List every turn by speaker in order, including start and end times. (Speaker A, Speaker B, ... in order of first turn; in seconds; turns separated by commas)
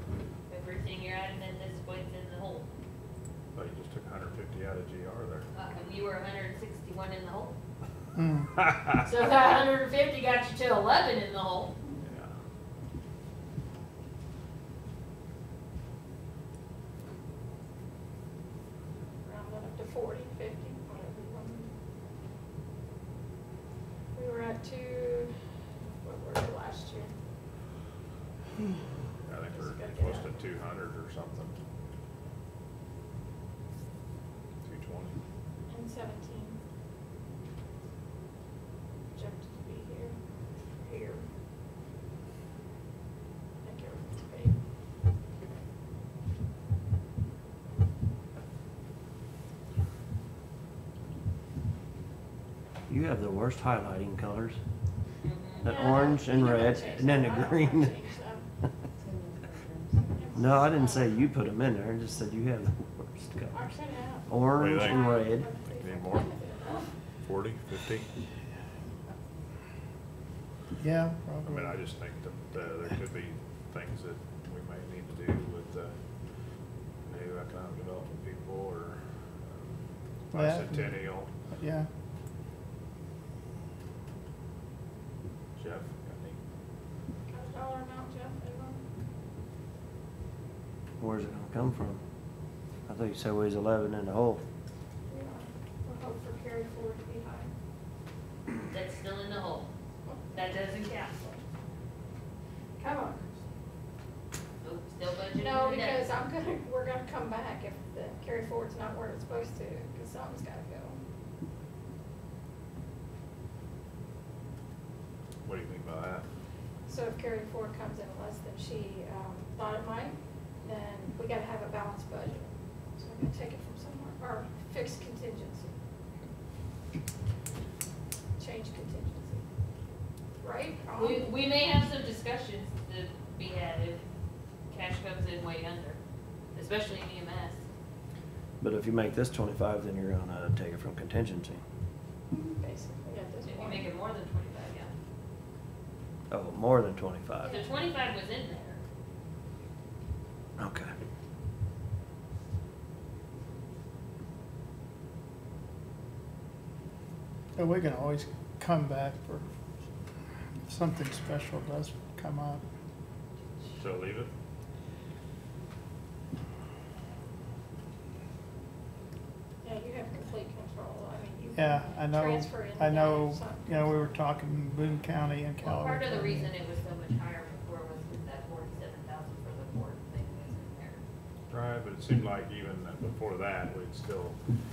Speaker A: 0.5-2.7, Speaker B: 3.5-5.5, Speaker A: 5.5-7.5, Speaker C: 8.1-8.5, Speaker A: 9.0-11.7, Speaker B: 12.0-12.3, Speaker D: 19.2-21.7, Speaker D: 24.1-25.3, Speaker D: 26.0-27.1, Speaker B: 29.2-31.6, Speaker D: 29.5-30.3, Speaker B: 34.6-35.2, Speaker D: 35.7-36.6, Speaker D: 39.1-40.2, Speaker D: 40.8-41.2, Speaker D: 43.6-44.5, Speaker E: 52.9-54.6, Speaker A: 55.2-56.0, Speaker D: 55.6-58.4, Speaker E: 55.6-58.0, Speaker D: 60.1-61.1, Speaker E: 60.3-63.7, Speaker D: 63.5-66.9, Speaker E: 64.3-65.5, Speaker B: 64.5-66.4, Speaker B: 67.2-68.1, Speaker C: 70.8-71.8, Speaker B: 71.4-75.9, Speaker B: 77.1-81.3, Speaker C: 80.3-81.9, Speaker B: 85.5-86.4, Speaker D: 87.3-88.8, Speaker E: 91.0-92.0, Speaker E: 92.9-94.4, Speaker D: 95.1-97.5, Speaker A: 98.7-99.7, Speaker D: 100.0-100.3, Speaker A: 100.3-101.4, Speaker D: 102.8-103.3, Speaker A: 104.6-106.1, Speaker D: 105.4-111.0, Speaker B: 115.4-116.2, Speaker D: 116.9-125.7, Speaker D: 128.4-129.4, Speaker D: 130.4-131.3, Speaker A: 130.9-134.0, Speaker A: 134.7-136.0, Speaker A: 136.5-137.6, Speaker E: 138.6-141.6, Speaker D: 142.3-143.9, Speaker A: 143.4-144.9, Speaker E: 146.3-147.6, Speaker A: 147.4-148.8, Speaker E: 150.6-150.9, Speaker C: 157.6-159.5, Speaker C: 160.7-162.6, Speaker B: 163.8-164.3, Speaker D: 169.6-174.1, Speaker C: 171.5-176.5, Speaker A: 175.6-181.0, Speaker B: 181.5-184.4